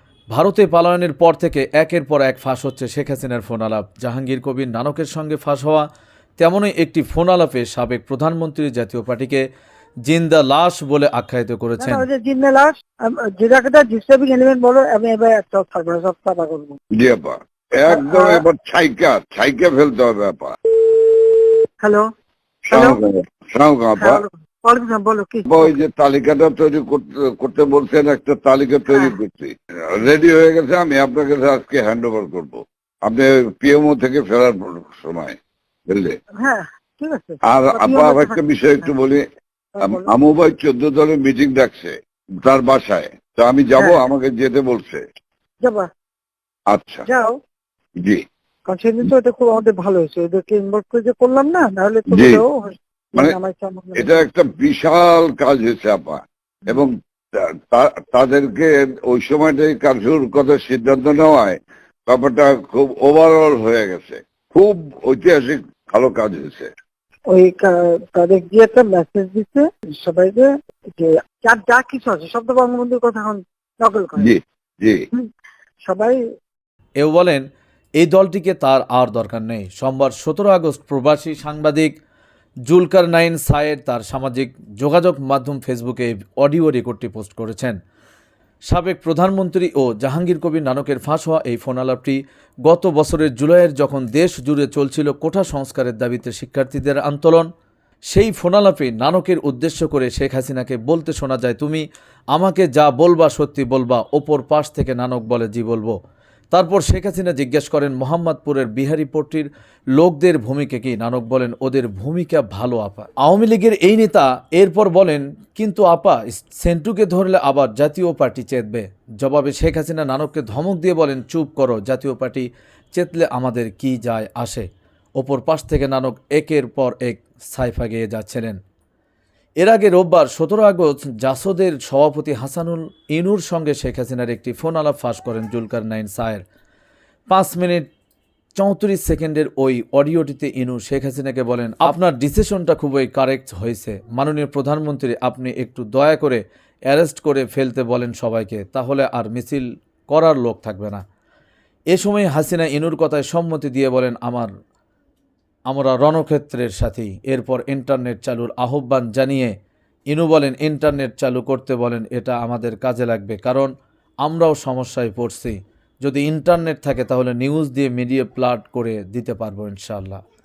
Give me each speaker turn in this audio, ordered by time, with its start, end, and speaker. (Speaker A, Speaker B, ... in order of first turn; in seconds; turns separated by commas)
Speaker A: 0.3-5.9, Speaker A: 6.4-9.4, Speaker A: 10.1-12.0, Speaker B: 11.8-16.8, Speaker C: 17.0-20.6, Speaker B: 17.9-18.4, Speaker B: 21.8-22.1, Speaker C: 22.7-24.2, Speaker B: 22.7-23.0, Speaker B: 24.0-25.7, Speaker C: 25.4-35.4, Speaker C: 35.9-36.1, Speaker B: 36.4-38.9, Speaker C: 37.5-39.2, Speaker B: 39.8-40.1, Speaker C: 39.8-45.0, Speaker C: 46.7-47.0, Speaker B: 47.0-47.4, Speaker B: 48.7-54.2, Speaker C: 52.1-52.4, Speaker C: 54.0-66.7, Speaker B: 67.3-74.3, Speaker C: 74.2-75.0, Speaker B: 75.9-76.2, Speaker A: 77.0-77.4, Speaker A: 78.0-81.9, Speaker A: 82.7-87.7, Speaker A: 88.7-97.5, Speaker A: 98.1-105.9, Speaker A: 106.5-128.6, Speaker A: 129.6-136.4, Speaker A: 137.3-137.8, Speaker A: 138.6-151.0, Speaker A: 151.9-154.5, Speaker A: 155.7-159.5, Speaker A: 160.1-163.7, Speaker A: 164.2-170.2